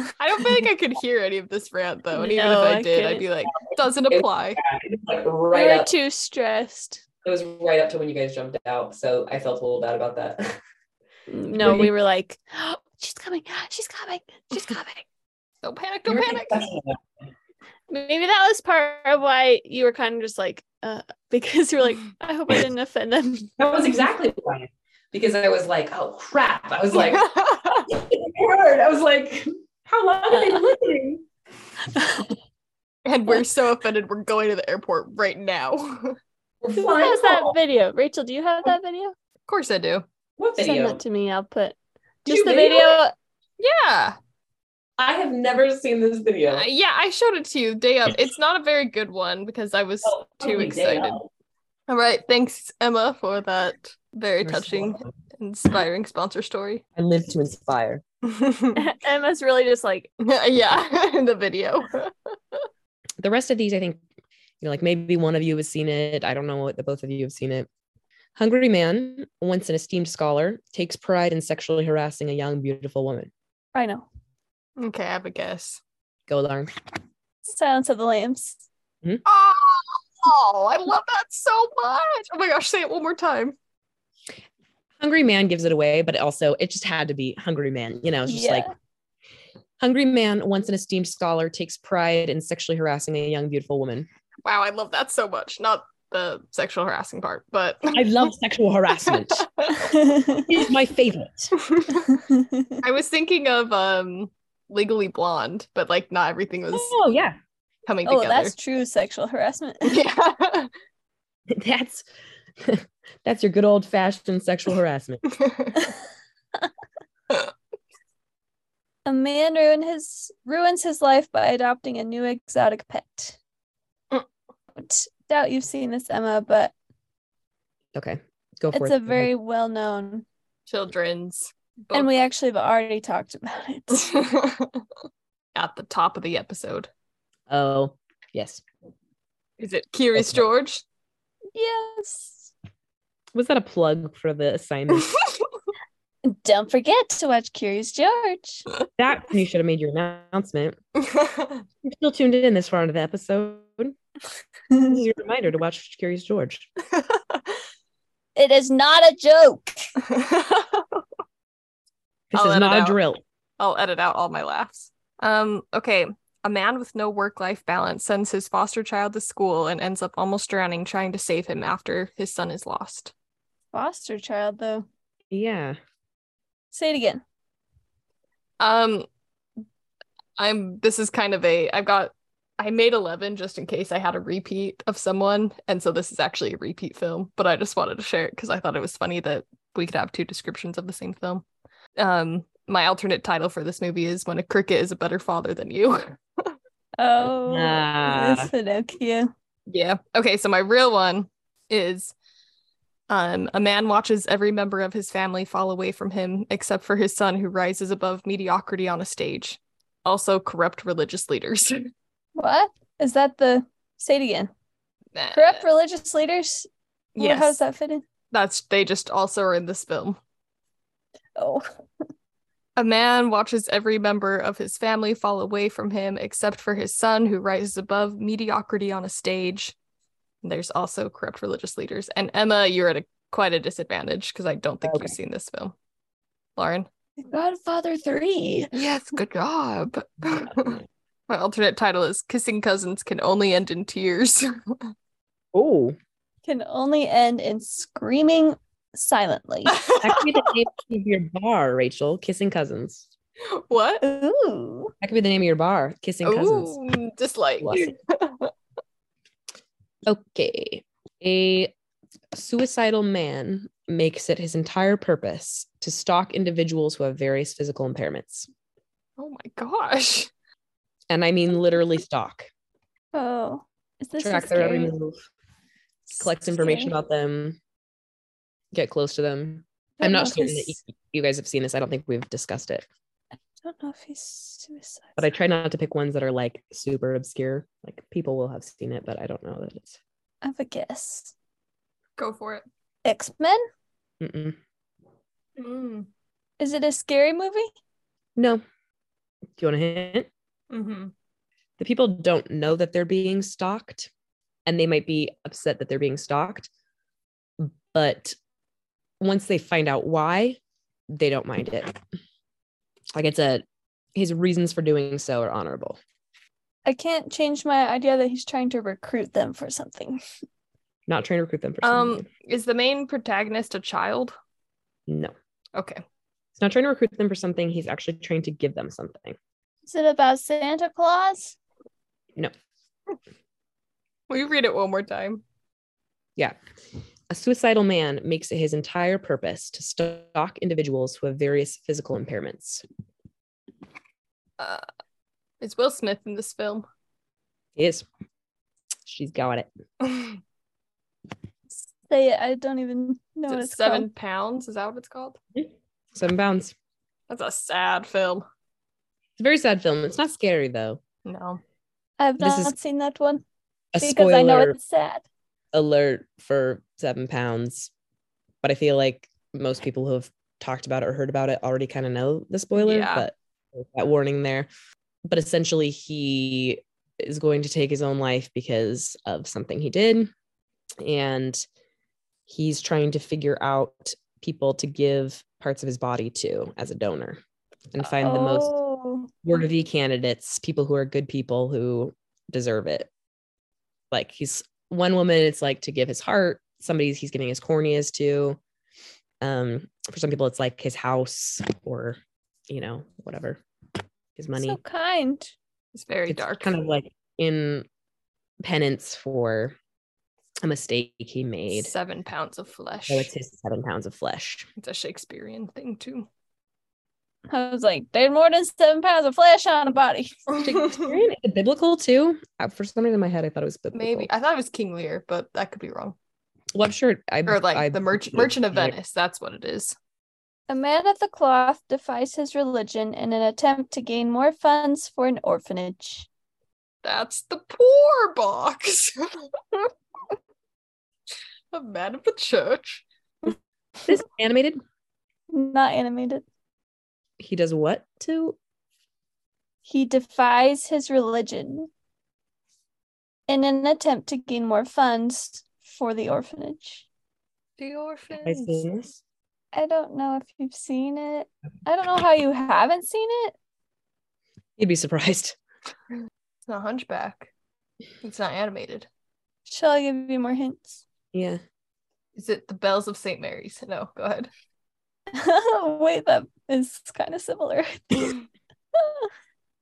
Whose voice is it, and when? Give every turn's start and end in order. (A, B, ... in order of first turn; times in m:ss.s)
0:00.2-0:04.6 A
0:02.2-0:03.3 B
0:04.1-0:05.9 C
0:05.5-0:07.0 B
0:07.2-0:10.6 C
0:11.3-0:15.0 B
0:11.6-0:11.9 C
0:15.6-0:16.7 A
0:16.1-0:17.0 C
0:17.9-0:23.5 B
0:23.6-0:27.3 C
0:26.9-0:27.9 A
0:27.8-0:31.2 C
0:31.9-0:32.3 B
0:33.1-0:36.2 A
0:36.6-0:37.6 C
0:36.8-0:39.2 B
0:39.5-0:40.0 A
0:40.4-0:41.0 C
0:40.6-0:43.1 B
0:42.3-0:43.0 C
0:43.6-0:44.2 A
0:45.0-0:46.7 C
0:46.5-0:51.2 A
0:50.0-0:51.3 C
0:51.9-0:56.8 A
0:54.4-0:55.1 C
0:57.0-0:58.0 C
0:58.2-0:58.8 A
0:58.8-1:00.1 B
1:00.2-1:02.6 A
1:03.2-1:04.0 C
1:04.6-1:07.7 C
1:08.4-1:13.3 C
1:13.7-1:14.1 B
1:14.8-1:15.8 A
1:16.3-1:16.7 C
1:17.5-1:18.6 B
1:19.2-1:23.6 A
1:25.0-1:28.7 C
1:28.3-1:28.7 B
1:29.8-1:34.1 C
1:34.4-1:38.2 A
1:37.9-1:39.5 C
1:39.1-1:39.9 A
1:39.7-1:40.5 B
1:40.3-1:41.6 C
1:41.6-1:42.0 A
1:42.1-1:42.8 B
1:42.8-1:47.0 A
1:46.7-1:47.4 C
1:47.9-1:48.5 A
1:48.0-1:50.0 B
1:49.8-1:50.7 A
1:51.5-1:52.1 C
1:52.6-1:55.2 C
1:55.3-1:55.8 A
1:59.1-2:03.4 B
2:04.8-2:06.7 B
2:07.9-2:09.3 C
2:08.7-2:10.2 B
2:10.7-2:12.1 A
2:11.9-2:14.2 B
2:14.0-2:14.8 A
2:15.6-2:16.9 A
2:17.5-2:18.6 C
2:19.6-2:20.8 A
2:20.2-2:20.4 C
2:21.6-2:22.5 B
2:23.3-2:25.1 C
2:26.2-2:28.6 B
2:29.0-2:30.8 C
2:31.0-2:31.6 A
2:31.8-2:34.0 C
2:34.8-2:36.7 C
2:36.9-2:37.4 A
2:38.4-2:39.8 B
2:40.0-2:41.0 A
2:42.3-2:43.2 C
2:42.4-2:43.0 A
2:43.6-2:53.1 A
2:53.7-2:54.9 B
2:55.3-2:55.8 C
2:56.7-2:57.2 B
2:58.6-2:59.1 A
3:00.4-3:11.4 A
3:12.0-3:16.5 A
3:17.0-3:19.3 B
3:17.2-3:18.5 C
3:19.7-3:22.2 A
3:23.1-3:31.9 A
3:32.4-3:34.5 B
3:35.2-3:35.7 A
3:35.3-3:38.0 B
3:37.2-3:37.6 A
3:38.3-3:40.2 A
3:41.4-3:41.7 B
3:42.8-3:49.8 A
3:50.4-3:55.8 A
3:54.8-3:55.2 C
3:56.6-3:56.9 A
3:57.2-3:58.7 B
3:58.7-4:04.8 A
4:00.4-4:00.8 C
4:05.5-4:06.0 C
4:06.5-4:09.8 B
4:09.7-4:10.5 A
4:10.0-4:13.1 C
4:13.5-4:14.0 A
4:14.0-4:14.9 B
4:15.0-4:16.8 C
4:16.2-4:18.5 A
4:17.6-4:17.9 C
4:20.1-4:21.7 C
4:22.3-4:28.5 C
4:29.2-4:30.3 A
4:31.1-4:32.5 C
4:33.1-4:34.9 B
4:34.2-4:35.2 C
4:36.2-4:37.6 C
4:36.6-4:36.9 B
4:38.7-4:42.9 C
4:40.0-4:40.8 B
4:43.6-4:45.2 B
4:45.2-4:50.0 C
4:50.4-4:51.3 B
4:52.2-4:52.6 A
4:53.0-4:53.6 B
4:54.2-4:54.6 C
4:55.6-4:56.1 A
4:56.6-4:57.7 B
4:58.4-4:58.6 C
4:59.6-5:00.3 C
5:00.7-5:01.1 A
5:01.8-5:04.1 C
5:04.7-5:06.7 C
5:07.6-5:08.4 C
5:09.2-5:10.6 C
5:11.1-5:12.0 C
5:13.2-5:13.6 C
5:14.2-5:16.0 C
5:16.9-5:20.2 B
5:21.1-5:22.3 C
5:21.8-5:24.4 A
5:25.1-5:25.3 C
5:25.8-5:26.0 A
5:26.6-5:29.4 C
5:29.9-5:31.6 B
5:34.3-5:35.4 A
5:37.3-5:42.8 C
5:44.6-5:44.8 A
5:45.6-5:46.9 A
5:47.8-5:48.1 C
5:49.1-5:49.7 C
5:50.0-5:50.4 A
5:51.9-5:54.1 B
5:53.5-5:55.4 A
5:55.6-5:56.8 C
5:57.3-5:58.4 A
5:59.4-6:01.0 C
6:01.2-6:01.6 A
6:02.2-6:03.4 B
6:02.4-6:02.8 C
6:03.9-6:04.8 C
6:04.0-6:05.2 B
6:05.7-6:07.9 C
6:08.6-6:14.7 C
6:12.8-6:13.3 A
6:15.3-6:20.3 C
6:21.0-6:21.6 C
6:22.5-6:27.4 C
6:27.9-6:28.8 C
6:28.1-6:29.3 B
6:29.4-6:33.1 C
6:34.1-6:38.6 C
6:39.4-6:43.6 C
6:44.4-6:44.8 C
6:44.6-6:45.5 B
6:45.9-6:46.7 A
6:46.3-6:47.9 C
6:48.6-6:49.8 C
6:50.6-6:51.9 C
6:51.7-6:53.3 A
6:53.1-6:54.7 C
6:54.8-6:56.3 A
6:57.5-7:00.5 B
7:00.5-7:01.1 A
7:00.6-7:04.3 C
7:03.9-7:06.2 A
7:06.7-7:09.0 C
7:07.5-7:10.0 A
7:10.7-7:16.3 B
7:17.0-7:19.5 A
7:21.7-7:23.0 A
7:24.1-7:24.8 C
7:25.5-7:26.4 B
7:27.4-7:28.6 C
7:29.9-7:31.9 B
7:33.5-7:37.0 B
7:37.8-7:38.8 A
7:38.4-7:39.2 C
7:39.7-7:43.6 B
7:44.8-7:45.6 C
7:46.7-7:47.5 A
7:48.2-7:49.1 A
7:49.7-7:51.0 B
7:51.3-7:51.6 C
7:52.4-7:54.5 A
7:55.3-7:58.4 B
7:59.0-7:59.3 B